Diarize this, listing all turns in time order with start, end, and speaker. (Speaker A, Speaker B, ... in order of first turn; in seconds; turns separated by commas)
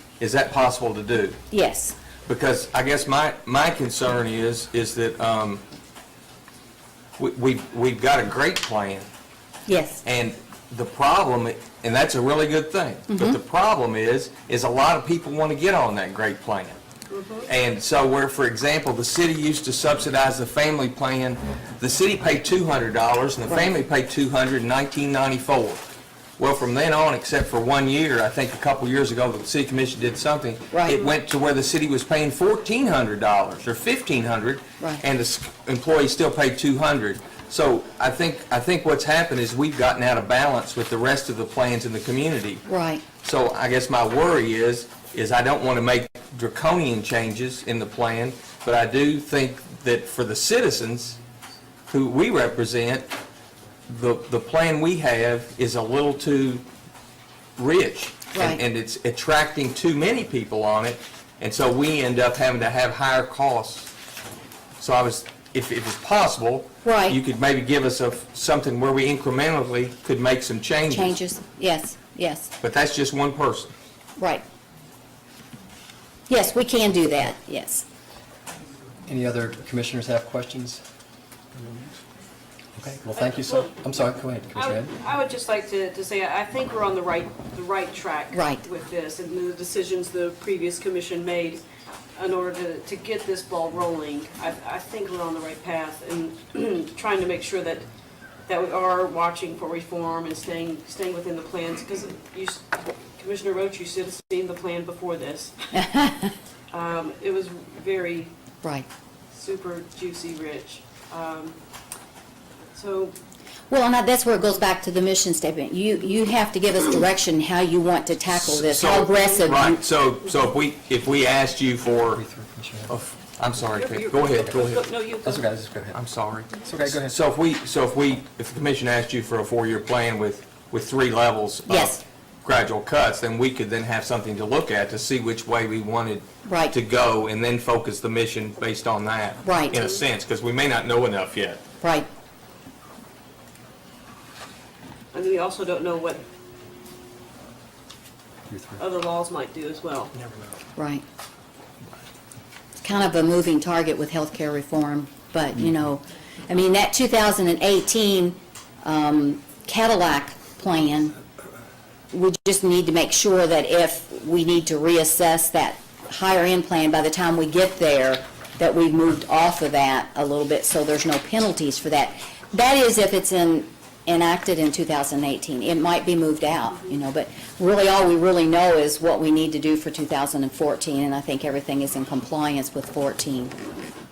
Speaker A: 0.2-1.4, Speaker B: 1.5-1.9, Speaker A: 2.2-5.6, Speaker A: 7.2-9.1, Speaker B: 9.7-10.0, Speaker A: 10.0-16.8, Speaker B: 13.1-13.4, Speaker C: 17.1-17.5, Speaker A: 17.5-25.8, Speaker A: 26.4-42.6, Speaker B: 30.7-31.1, Speaker B: 42.7-43.0, Speaker A: 43.2-51.2, Speaker A: 51.9-53.1, Speaker A: 53.9-56.6, Speaker A: 57.6-63.9, Speaker B: 58.3-58.6, Speaker A: 64.8-71.2, Speaker B: 66.8-67.2, Speaker B: 70.9-72.5, Speaker A: 72.6-73.7, Speaker B: 74.2-74.4, Speaker B: 76.3-77.8, Speaker D: 79.0-80.8, Speaker D: 81.5-82.0, Speaker D: 82.8-84.9, Speaker C: 83.2-83.8, Speaker C: 84.5-91.6, Speaker B: 88.3-88.6, Speaker C: 92.2-97.8, Speaker C: 98.5-105.8, Speaker B: 105.7-106.3, Speaker C: 106.7-108.3, Speaker C: 109.3-111.6, Speaker C: 112.7-113.2, Speaker B: 113.7-119.8, Speaker A: 118.3-122.2, Speaker D: 122.1-122.9, Speaker A: 122.9-124.8, Speaker C: 123.8-125.4, Speaker D: 125.2-126.0, Speaker A: 125.9-141.6, Speaker D: 126.6-127.1, Speaker B: 131.7-132.0, Speaker B: 136.4-136.7, Speaker B: 139.4-139.8, Speaker C: 139.7-140.0, Speaker B: 141.8-142.1, Speaker C: 145.1-146.2, Speaker D: 148.5-148.8, Speaker C: 148.8-150.1, Speaker B: 150.8-151.0, Speaker B: 152.8-161.2, Speaker B: 162.1-183.5